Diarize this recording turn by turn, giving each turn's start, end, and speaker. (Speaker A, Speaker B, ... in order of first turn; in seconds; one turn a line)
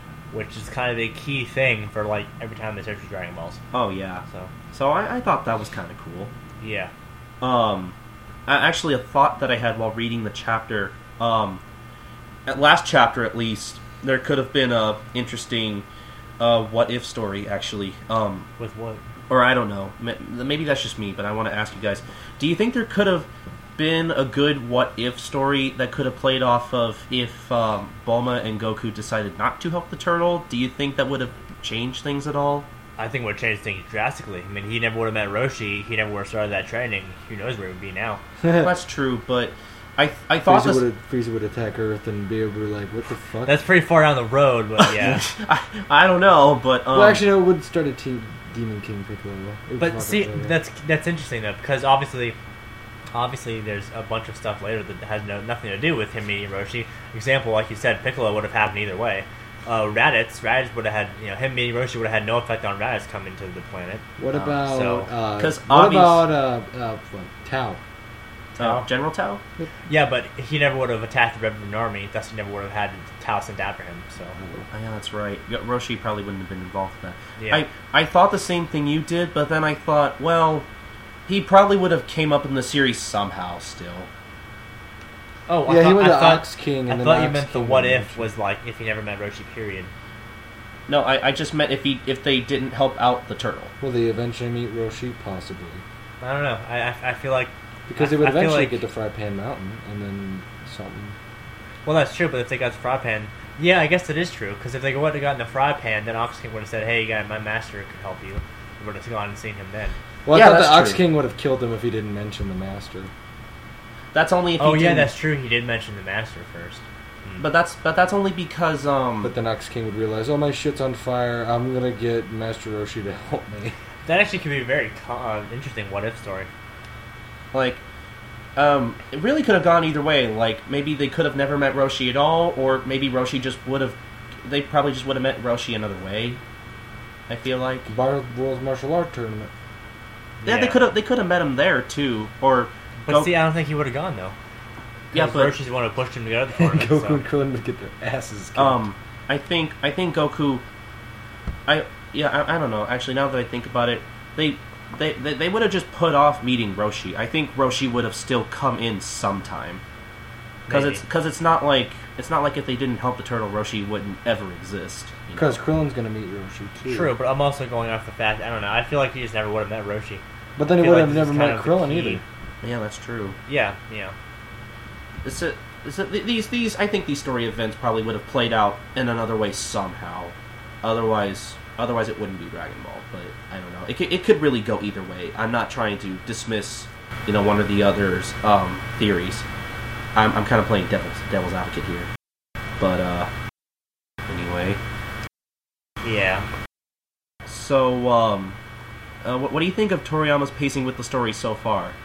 Speaker A: 0.3-3.6
Speaker B: 3.7-6.3
Speaker A: 4.3-4.5
Speaker A: 6.6-6.9
Speaker B: 7.4-7.9
Speaker B: 8.5-11.6
Speaker B: 12.5-15.8
Speaker B: 16.4-18.5
Speaker A: 18.6-19.0
Speaker B: 19.3-32.7
Speaker A: 33.0-38.2
Speaker C: 38.4-38.7
Speaker B: 38.6-40.8
Speaker C: 40.5-43.6
Speaker A: 43.4-45.3
Speaker B: 44.9-47.2
Speaker C: 46.9-50.5
Speaker A: 49.8-52.4
Speaker A: 53.1-65.1
Speaker C: 64.2-67.8
Speaker B: 65.4-66.3
Speaker B: 68.6-69.4
Speaker A: 68.6-68.9
Speaker A: 69.9-74.4
Speaker C: 74.4-74.6
Speaker B: 74.7-80.7
Speaker A: 77.4-77.6
Speaker B: 81.3-84.1
Speaker A: 85.5-89.9
Speaker C: 85.7-88.3
Speaker B: 90.9-93.7
Speaker C: 93.8-95.8
Speaker A: 96.2-98.8
Speaker C: 97.9-101.2
Speaker A: 101.8-110.0
Speaker C: 110.2-113.1
Speaker B: 110.3-111.0
Speaker B: 114.1-115.1
Speaker A: 114.6-117.4
Speaker B: 117.4-119.3
Speaker C: 119.2-123.7
Speaker A: 124.0-126.5
Speaker B: 127.5-127.8
Speaker B: 128.6-136.4
Speaker B: 137.3-137.9
Speaker C: 137.9-139.5
Speaker A: 140.4-140.8
Speaker B: 140.4-143.3
Speaker A: 143.0-144.3
Speaker B: 145.1-145.6
Speaker A: 145.1-147.2
Speaker C: 146.5-148.8
Speaker B: 148.5-150.6
Speaker B: 151.7-159.8
Speaker A: 160.7-161.0
Speaker B: 160.7-165.6
Speaker C: 165.3-167.2
Speaker A: 166.8-170.2
Speaker C: 170.6-172.2
Speaker A: 170.7-172.2
Speaker B: 172.6-173.4
Speaker A: 173.5-174.1
Speaker B: 175.2-189.4
Speaker B: 190.1-192.1
Speaker B: 192.8-193.3
Speaker B: 194.3-194.8
Speaker A: 196.0-196.5
Speaker B: 197.5-198.6
Speaker B: 199.2-201.9